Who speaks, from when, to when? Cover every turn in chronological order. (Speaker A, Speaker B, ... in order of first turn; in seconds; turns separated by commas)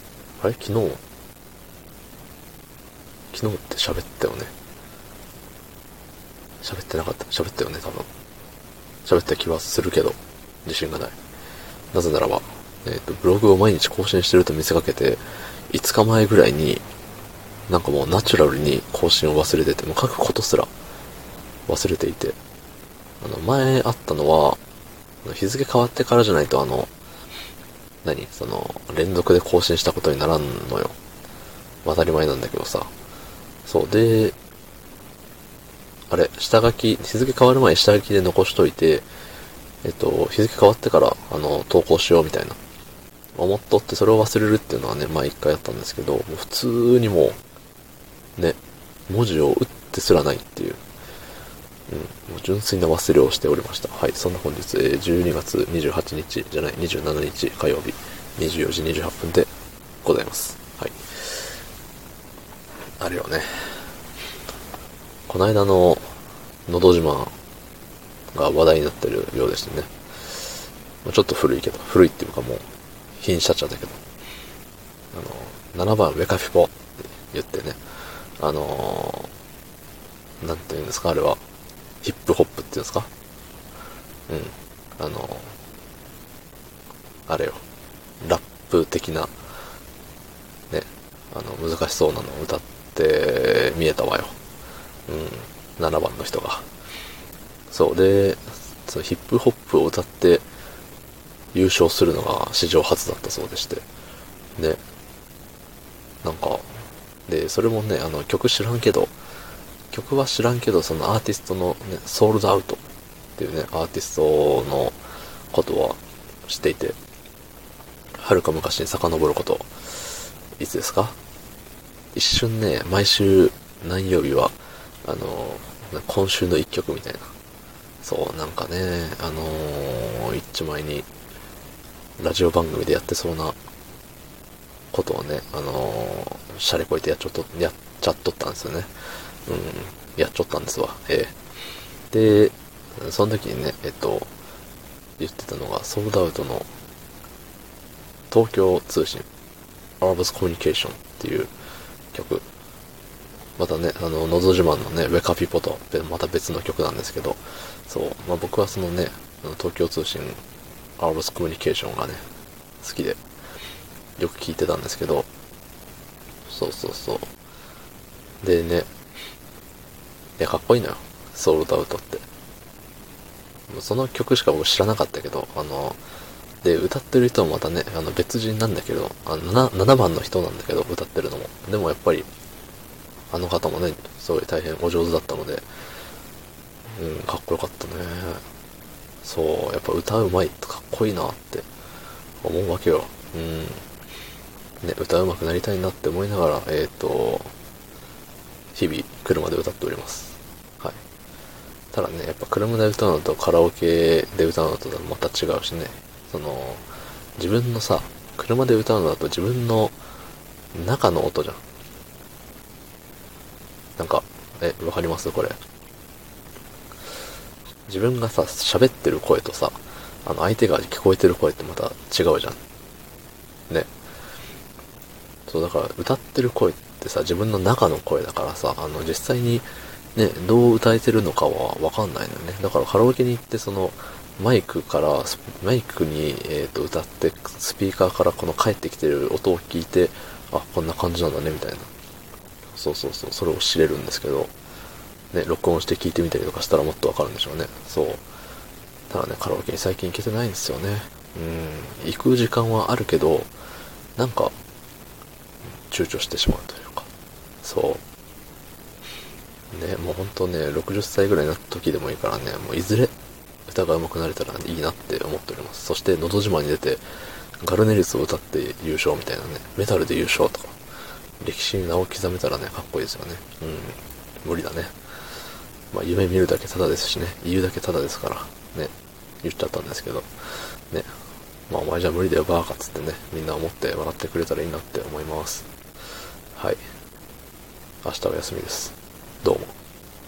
Speaker A: 0.4-1.0, Speaker A: 3.3-4.5, Speaker A: 6.6-8.1, Speaker A: 9.0-11.2, Speaker A: 11.9-16.8, Speaker A: 17.7-20.7, Speaker A: 21.7-22.4, Speaker A: 23.2-24.6, Speaker A: 25.2-26.9, Speaker A: 28.0-30.9, Speaker A: 31.8-32.9, Speaker A: 33.6-34.3, Speaker A: 36.1-39.0, Speaker A: 39.8-42.6, Speaker A: 43.3-47.4, Speaker A: 48.4-50.8, Speaker A: 51.9-59.5, Speaker A: 60.0-61.5, Speaker A: 63.0-63.9, Speaker A: 65.3-66.1, Speaker A: 66.7-67.3, Speaker A: 68.3-72.6, Speaker A: 73.2-74.0, Speaker A: 75.1-76.7, Speaker A: 77.3-79.3, Speaker A: 80.4-81.4, Speaker A: 82.0-83.1, Speaker A: 84.3-85.5, Speaker A: 87.3-87.6, Speaker A: 88.2-89.3, Speaker A: 90.7-94.3, Speaker A: 95.1-96.7, Speaker A: 97.7-100.4, Speaker A: 101.5-103.8, Speaker A: 106.2-109.1, Speaker A: 109.9-112.8, Speaker A: 113.4-115.0, Speaker A: 115.5-117.0, Speaker A: 118.2-121.2, Speaker A: 122.1-124.5, Speaker A: 125.0-127.3, Speaker A: 128.0-131.1, Speaker A: 132.2-133.6, Speaker A: 134.9-141.3, Speaker A: 142.1-144.3, Speaker A: 145.2-146.7, Speaker A: 148.3-149.3, Speaker A: 150.0-151.5, Speaker A: 152.1-152.4, Speaker A: 153.6-160.4, Speaker A: 161.0-162.2, Speaker A: 162.8-163.2, Speaker A: 164.2-165.3, Speaker A: 166.5-167.3, Speaker A: 168.4-168.9, Speaker A: 170.4-172.2, Speaker A: 173.7-176.0, Speaker A: 176.6-182.3, Speaker A: 183.3-185.6, Speaker A: 186.9-188.4, Speaker A: 189.2-191.7, Speaker A: 192.4-193.8, Speaker A: 194.8-197.5, Speaker A: 198.7-201.0, Speaker A: 201.9-206.8, Speaker A: 207.4-209.9, Speaker A: 210.7-211.6, Speaker A: 214.0-215.6, Speaker A: 217.9-222.6, Speaker A: 225.5-241.9, Speaker A: 242.7-244.5, Speaker A: 245.3-248.2, Speaker A: 249.1-253.5, Speaker A: 254.2-254.5, Speaker A: 255.9-257.1, Speaker A: 257.6-258.0, Speaker A: 259.7-263.1, Speaker A: 263.7-270.8, Speaker A: 271.4-274.9, Speaker A: 275.9-281.1, Speaker A: 281.7-285.6, Speaker A: 288.0-289.7